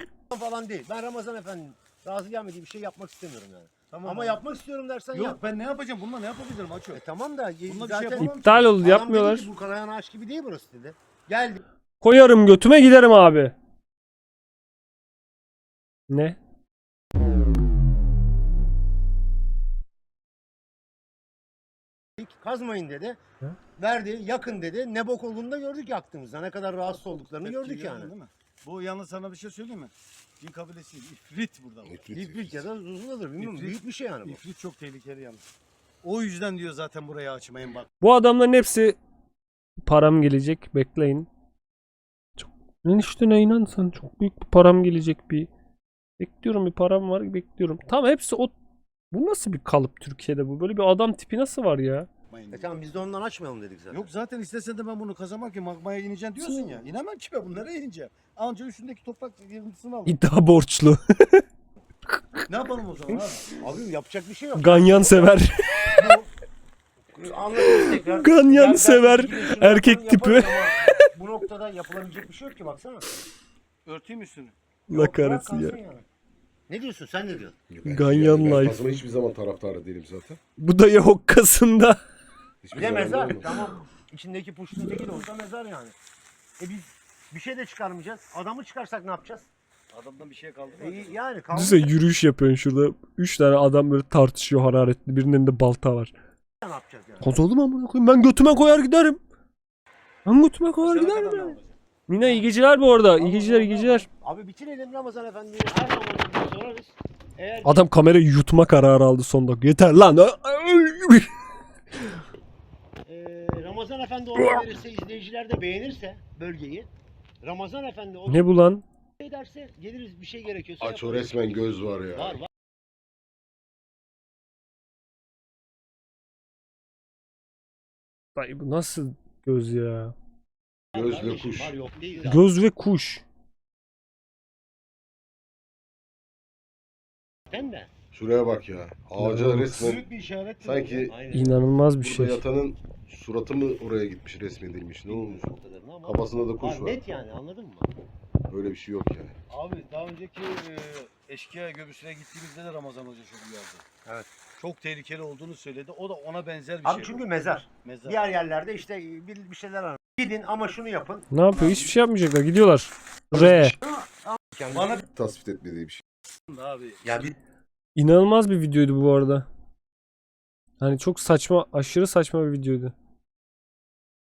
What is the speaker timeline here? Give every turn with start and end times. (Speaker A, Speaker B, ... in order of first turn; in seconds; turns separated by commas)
Speaker A: 0.3-5.4, Speaker B: 3.9-4.4, Speaker B: 5.1-7.0, Speaker A: 6.9-11.6, Speaker B: 7.7-8.7, Speaker C: 8.2-9.5, Speaker C: 12.0-13.5, Speaker C: 16.1-16.4, Speaker A: 22.2-23.2, Speaker A: 23.8-28.1, Speaker B: 27.4-32.1, Speaker D: 31.9-32.6, Speaker A: 32.1-34.4, Speaker B: 33.4-35.4, Speaker B: 36.0-37.9, Speaker C: 38.0-39.0, Speaker C: 39.8-41.3, Speaker C: 42.4-45.5, Speaker C: 46.2-48.5, Speaker C: 49.1-52.1, Speaker B: 52.3-52.7, Speaker A: 52.5-54.1, Speaker B: 53.9-60.1, Speaker C: 60.0-61.4, Speaker B: 62.5-63.4, Speaker A: 63.5-65.4, Speaker C: 64.5-65.9, Speaker B: 66.0-66.3, Speaker A: 67.1-73.1, Speaker C: 67.7-71.1, Speaker B: 73.8-74.5, Speaker C: 74.9-75.8, Speaker A: 74.9-76.0, Speaker A: 76.7-77.6, Speaker D: 77.7-80.4, Speaker C: 77.8-78.8, Speaker C: 80.6-82.0, Speaker D: 82.6-83.5, Speaker A: 82.7-86.0, Speaker A: 86.6-89.5, Speaker B: 89.9-91.2, Speaker A: 90.7-92.0, Speaker C: 91.5-96.1, Speaker A: 96.6-97.4, Speaker C: 97.2-99.2, Speaker C: 100.2-104.0, Speaker B: 100.8-101.7, Speaker A: 101.0-101.4, Speaker A: 102.2-102.5, Speaker A: 103.1-107.8, Speaker C: 107.6-111.3, Speaker A: 113.0-116.9, Speaker A: 117.4-118.5, Speaker C: 118.3-118.8, Speaker A: 119.2-122.5, Speaker D: 120.8-122.4, Speaker C: 128.3-130.1, Speaker D: 130.9-131.7, Speaker A: 130.9-132.4, Speaker C: 132.2-133.2, Speaker A: 137.5-137.9, Speaker D: 138.1-140.0, Speaker C: 139.2-139.9, Speaker A: 139.7-141.6, Speaker D: 140.6-141.2, Speaker C: 141.3-142.4, Speaker D: 142.0-145.4, Speaker A: 145.1-147.9, Speaker D: 146.0-147.0, Speaker D: 148.5-149.3, Speaker B: 149.5-153.8, Speaker A: 154.0-154.3, Speaker B: 154.6-157.2, Speaker A: 156.8-161.3, Speaker B: 157.8-158.2, Speaker C: 161.3-163.8, Speaker A: 163.3-165.0, Speaker B: 164.7-165.0, Speaker D: 165.1-166.0, Speaker B: 166.5-167.1, Speaker A: 167.0-167.3, Speaker C: 167.9-169.5, Speaker C: 170.8-172.9